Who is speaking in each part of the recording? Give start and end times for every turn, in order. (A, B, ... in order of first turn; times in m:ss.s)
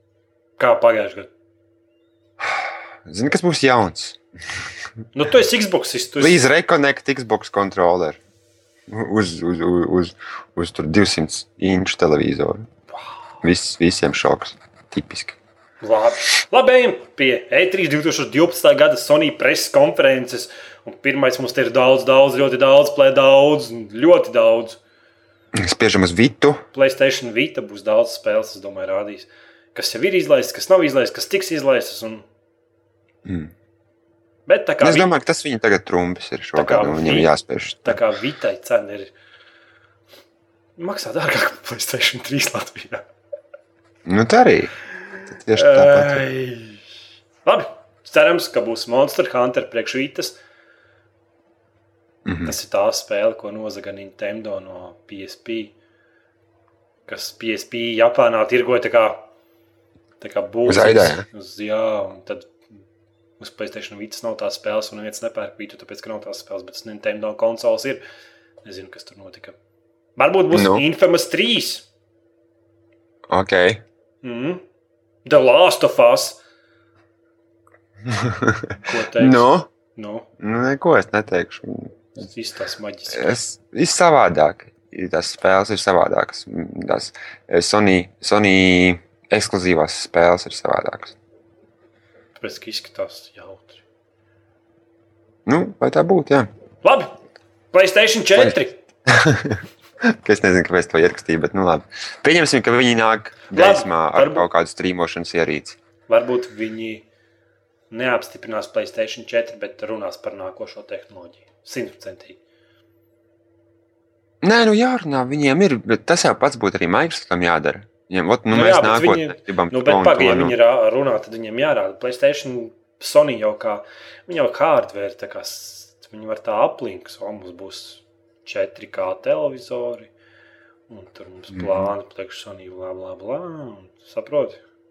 0:00.6-0:01.3 A
0:02.4-0:04.2 B
0:05.1-0:06.4 A
0:06.2-0:08.2 B
0:08.9-0:12.7 B
0:13.4-0:15.4 B
0:15.8-0:24.8 A
0:25.5-0:26.6 B
0:26.7-0:32.2 A
0:33.2-0:33.5 B
0:34.5-0:35.1 A
0:34.8-0:38.0 B
0:36.6-0:37.3 A
0:37.8-0:39.1 A
0:40.8-0:43.0 A
0:44.0-0:44.7 B
0:45.3-0:46.2 B
0:45.5-0:46.8 A
0:47.4-0:50.4 A
0:52.2-0:52.5 B
0:52.4-0:55.7 A
0:57.1-0:59.3 A
1:00.2-1:02.5 A
1:00.6-1:01.2 B
1:03.4-1:08.0 A
1:08.6-1:09.5 A
1:10.2-1:11.8 A
1:10.5-1:10.8 B
1:13.3-1:13.8 B
1:14.2-1:14.6 A
1:15.2-1:16.4 A
1:18.0-1:19.7 B
1:18.8-1:20.3 A
1:20.4-1:22.0 B
1:22.2-1:23.4 A
1:23.1-1:31.2 B
1:32.4-1:33.8 A
1:35.4-1:36.5 B
1:36.8-1:37.1 A
1:37.7-1:38.8 A
1:39.1-1:45.8 B
1:43.5-1:44.5 A
1:46.1-1:47.0 A
1:47.9-1:52.4 A
1:54.4-2:00.5 B
1:58.5-2:10.1 A
2:10.9-2:14.6 A
2:11.5-2:11.9 B